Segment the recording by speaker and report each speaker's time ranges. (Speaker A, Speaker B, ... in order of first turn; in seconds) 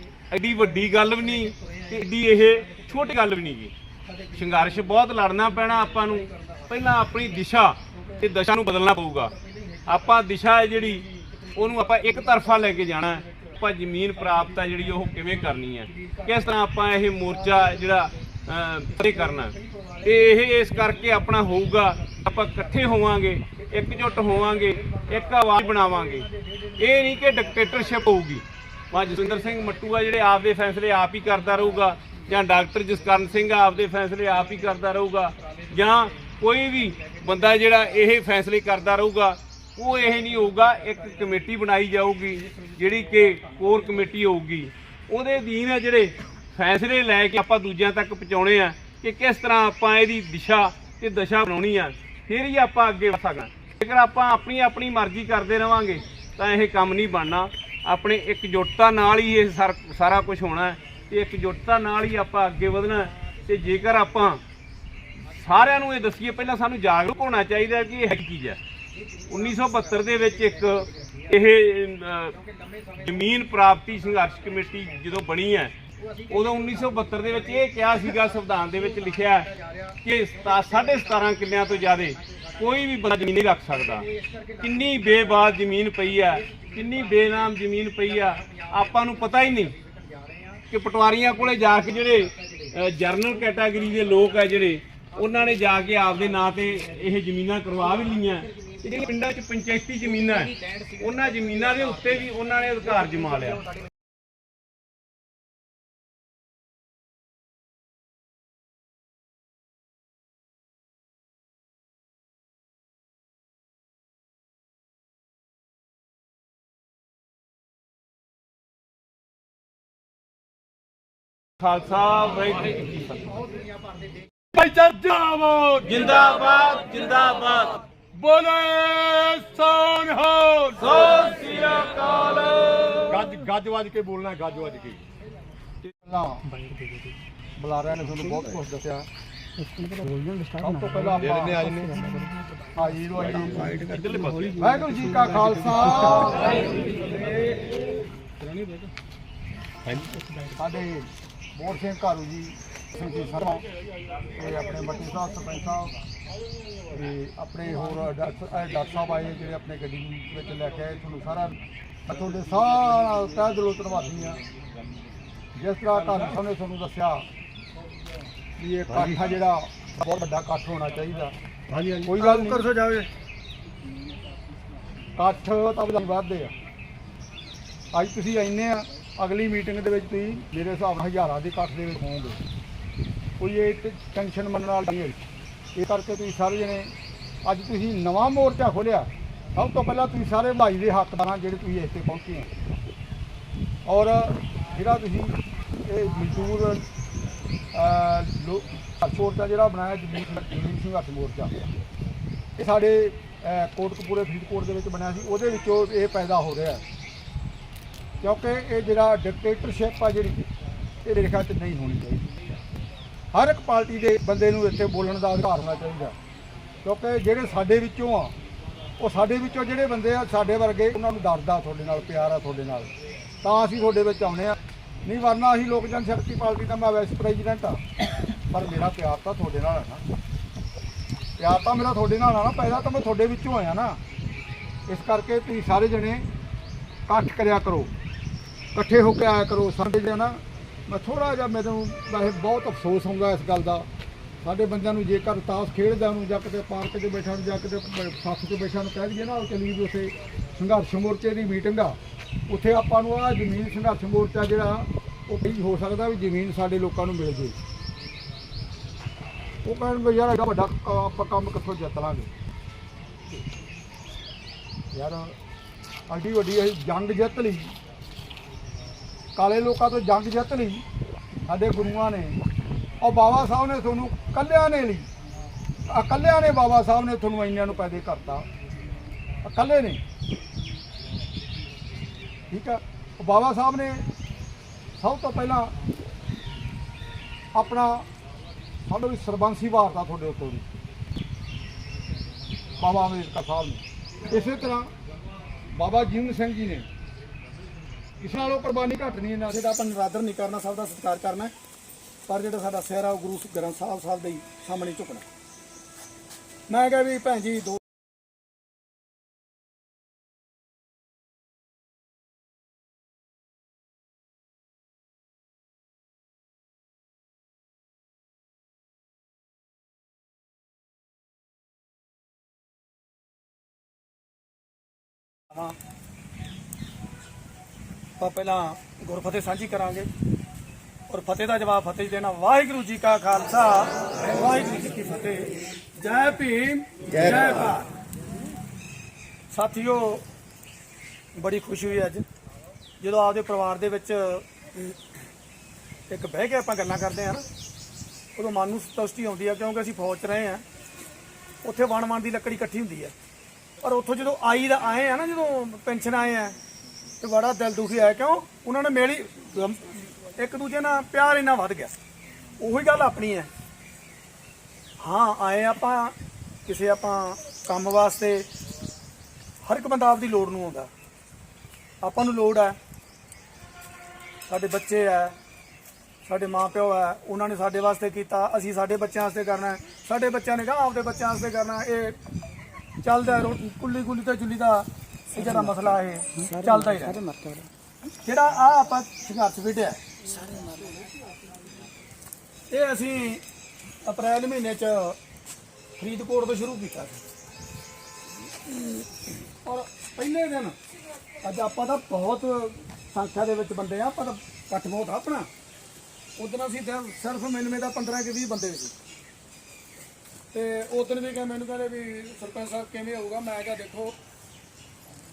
Speaker A: 0.3-3.7, 4.3-9.3, 9.9-64.4, 65.3-68.6, 69.3-72.4, 73.0-75.8, 76.3-79.5, 80.0-84.1, 84.6-89.8, 90.7-103.7, 121.6-123.4, 125.8-127.8, 130.8-133.2, 143.9-144.7
Speaker B: 124.5-126.0, 128.2-130.9, 133.1-135.0, 141.2-142.3, 149.8-150.1, 171.7-172.1
Speaker C: 136.0-136.5, 137.6-139.1, 140.4-141.7, 142.8-143.9, 144.6-146.6, 150.5-153.7, 154.3-155.9, 156.9-164.4, 165.6-167.3, 168.6-171.3, 172.1-172.6, 175.2-176.5, 177.9-182.4, 183.4-185.2, 185.8-186.9, 187.4-192.5, 193.9-196.9, 197.7-201.6, 202.6-206.8, 208.2-210.5, 211.0-212.3, 213.3-216.2, 216.8-218.3, 219.0-222.9, 223.4-227.8, 228.5-230.0, 231.4-234.0, 234.9-236.3, 237.1-237.9, 238.8-243.9, 244.4-252.0, 252.5-257.6, 259.6-262.3, 264.9-265.4, 266.1-267.7, 269.4-270.8, 271.5-272.4, 273.0-275.1, 275.9-278.5, 279.4-280.0, 282.5-284.1, 285.0-285.7, 287.6-288.1, 288.9-290.7, 292.8-294.9, 295.7-296.9, 298.2-299.6
Speaker D: 172.2-173.1, 299.5-301.5, 302.3-305.2, 306.7-307.8, 328.2-330.1, 331.1-337.9, 339.5-340.2, 341.4-342.2, 343.0-344.8, 346.1-347.4, 348.4-350.6, 351.6-353.1, 353.8-356.6, 357.2-361.9, 362.6-363.5, 365.0-366.1, 366.7-368.5, 369.6-370.9, 372.0-372.8, 374.5-375.4, 376.2-382.2, 383.0-387.2, 388.2-390.0, 392.7-393.4, 394.1-395.2, 396.0-397.2, 399.6-400.8, 401.4-405.5, 406.4-408.9, 410.5-414.1